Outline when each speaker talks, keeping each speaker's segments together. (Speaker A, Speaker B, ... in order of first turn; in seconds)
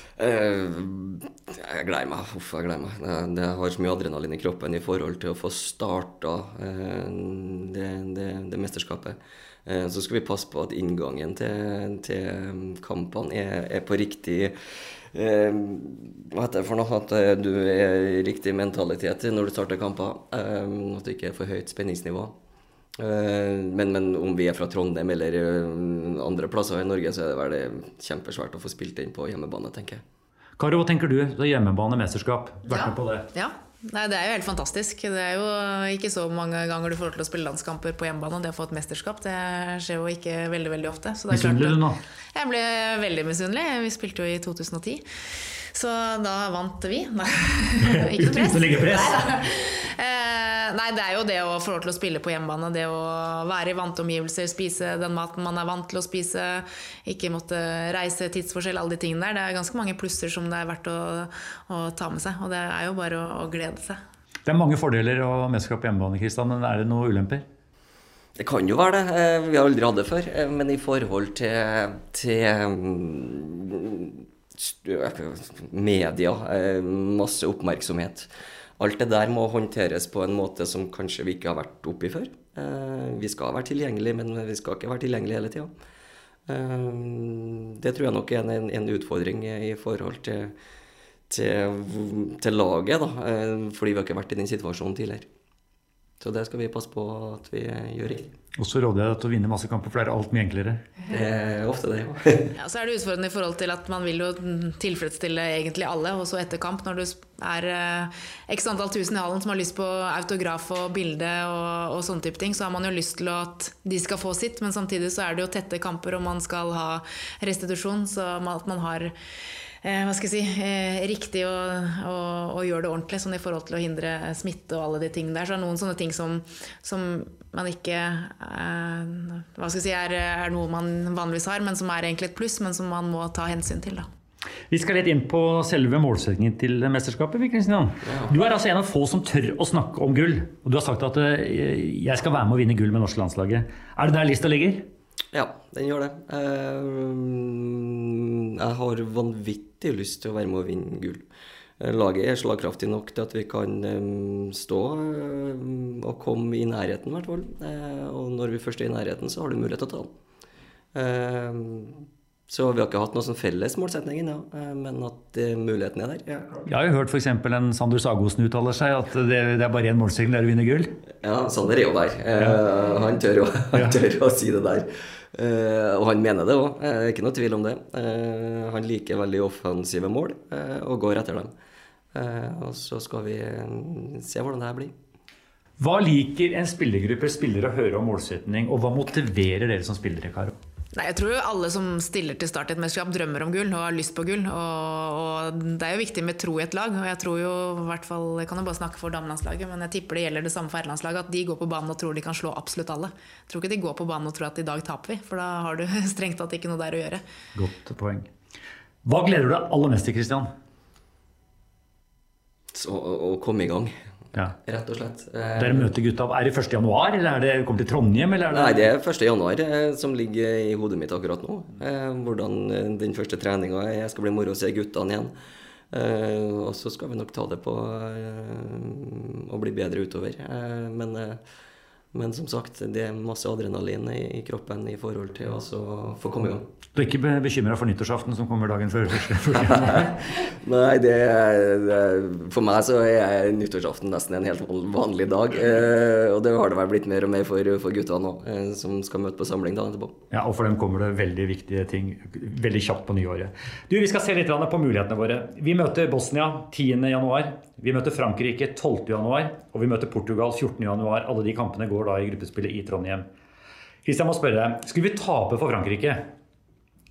Speaker A: 0.2-14.5, 15.1-22.3, 23.0-30.0, 68.4-85.7, 86.5-90.5, 91.3-95.3, 96.2-98.3, 101.1-102.5, 138.0-138.3, 145.3-151.2, 151.8-160.1, 160.9-166.7, 171.2-181.5, 182.1-184.9, 212.7-213.9, 214.6-215.9, 218.5-225.3, 225.9-231.4, 232.1-236.7, 239.6-250.2
Speaker B: 30.6-33.2, 41.3-42.0, 47.8-49.2, 64.5-67.4, 98.5-100.8, 134.7-144.8, 166.7-170.9, 173.7-174.0, 185.8-190.5, 207.5-208.3, 209.0-210.5, 215.6-218.8, 236.9-240.2, 250.3-263.2, 264.0-266.2
Speaker C: 32.7-41.8, 42.3-45.0, 45.7-64.0, 102.5-119.1, 119.8-134.1, 190.9-207.2